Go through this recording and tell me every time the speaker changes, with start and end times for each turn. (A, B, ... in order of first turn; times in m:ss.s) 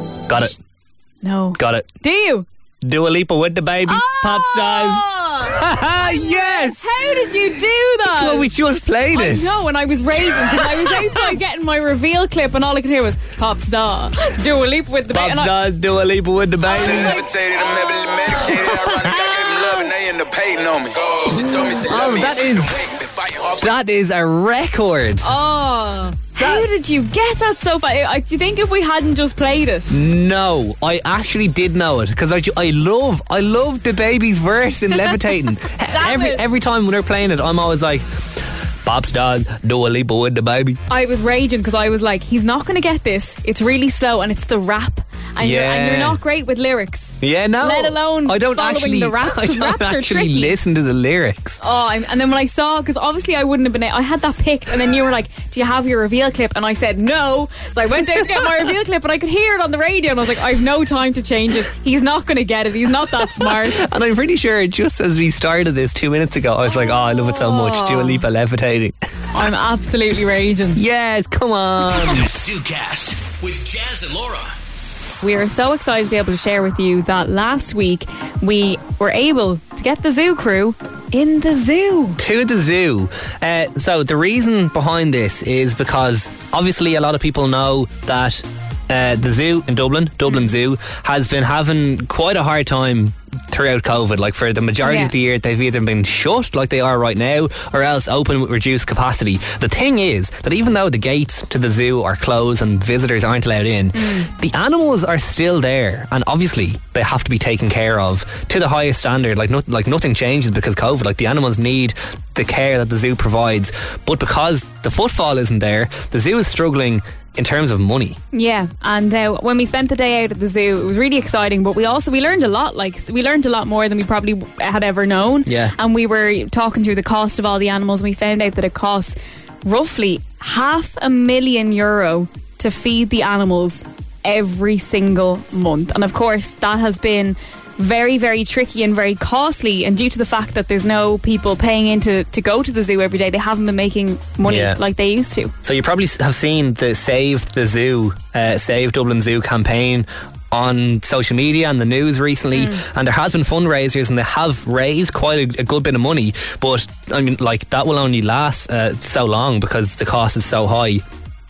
0:00.3-0:00.6 A
0:01.2-0:02.5 B
0:01.6-0:01.9 A
0:02.8-0:07.0 A
0:03.9-0:08.5 B
0:08.1-0:09.5 A
0:09.1-0:15.6 B
0:15.1-0:17.2 A
0:16.6-0:19.9 B
0:16.7-0:23.7 C
0:21.3-0:22.8 A
0:23.6-0:25.3 A
0:25.2-0:30.0 B
0:26.4-0:26.7 A
0:29.9-0:38.1 A
0:35.9-0:36.4 B
0:38.8-0:40.8 A
0:40.9-0:50.6 B
0:45.4-0:46.2 A
0:47.2-0:51.6 A
0:51.6-1:03.8 B
1:03.2-1:09.0 A
1:06.7-1:08.2 B
1:09.3-1:10.8 B
1:10.8-1:12.3 A
1:12.0-1:14.6 D
1:15.2-1:22.2 B
1:22.2-1:58.2 A
1:34.8-1:35.1 B
1:43.9-1:44.3 B
1:58.3-2:25.5 B
2:05.5-2:05.7 A
2:24.4-2:24.8 A
2:25.6-2:41.0 A
2:32.5-2:32.8 B